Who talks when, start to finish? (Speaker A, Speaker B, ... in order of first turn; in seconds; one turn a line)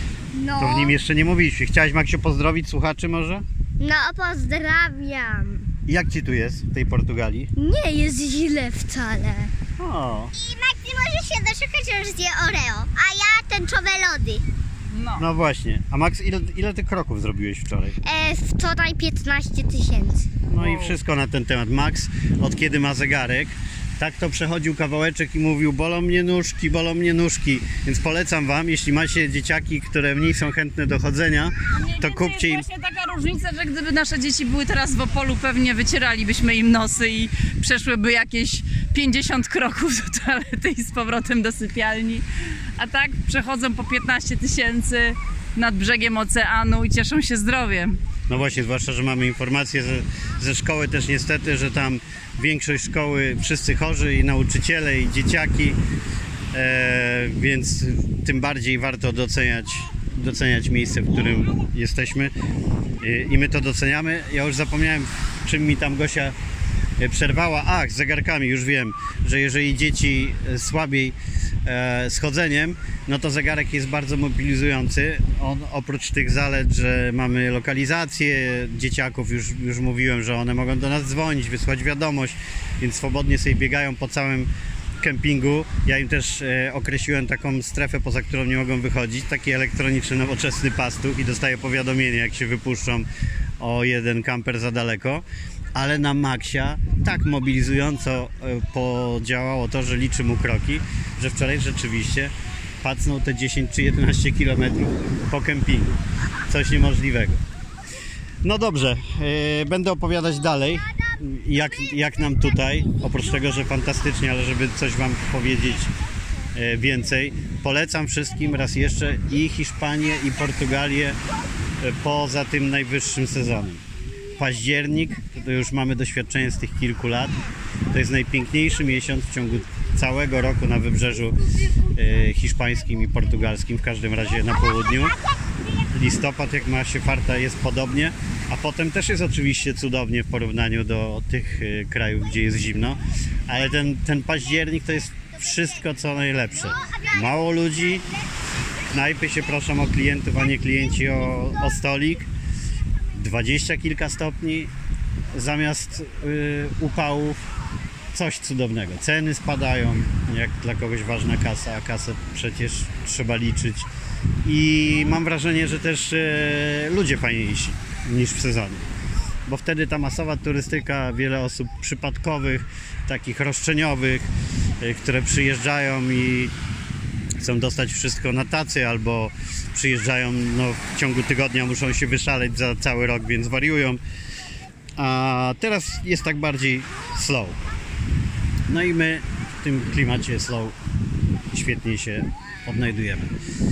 Speaker A: 0.3-0.9
Speaker B: 0.5-3.4
Speaker A: 3.8-5.7
Speaker B: 5.9-7.5
Speaker A: 7.5-9.5
Speaker B: 9.8-10.3
Speaker A: 10.3-14.4
Speaker C: 14.9-15.2
Speaker B: 15.2-18.0
Speaker A: 18.0-20.3
Speaker B: 20.5-32.6
Speaker C: 20.6-21.0
Speaker C: 31.7-42.2
Speaker C: 42.8-48.0
Speaker B: 48.3-55.8
Speaker B: 56.5-62.3
Speaker B: 63.0-66.3
Speaker B: 67.0-93.1
Speaker B: 93.6-95.2
Speaker B: 95.7-106.0
Speaker B: 106.5-107.4
Speaker B: 108.4-115.9
Speaker B: 116.5-121.2
Speaker B: 121.8-123.8
Speaker B: 124.4-127.4
Speaker B: 127.9-135.1
Speaker B: 135.8-148.1
Speaker B: 148.8-152.3
Speaker B: 153.1-154.7
Speaker B: 155.3-157.4
Speaker B: 158.1-163.9
Speaker B: 164.4-168.8
Speaker B: 169.4-176.5
Speaker B: 177.4-184.0
Speaker B: 185.0-187.6
Speaker B: 188.7-190.8
Speaker B: 191.5-193.3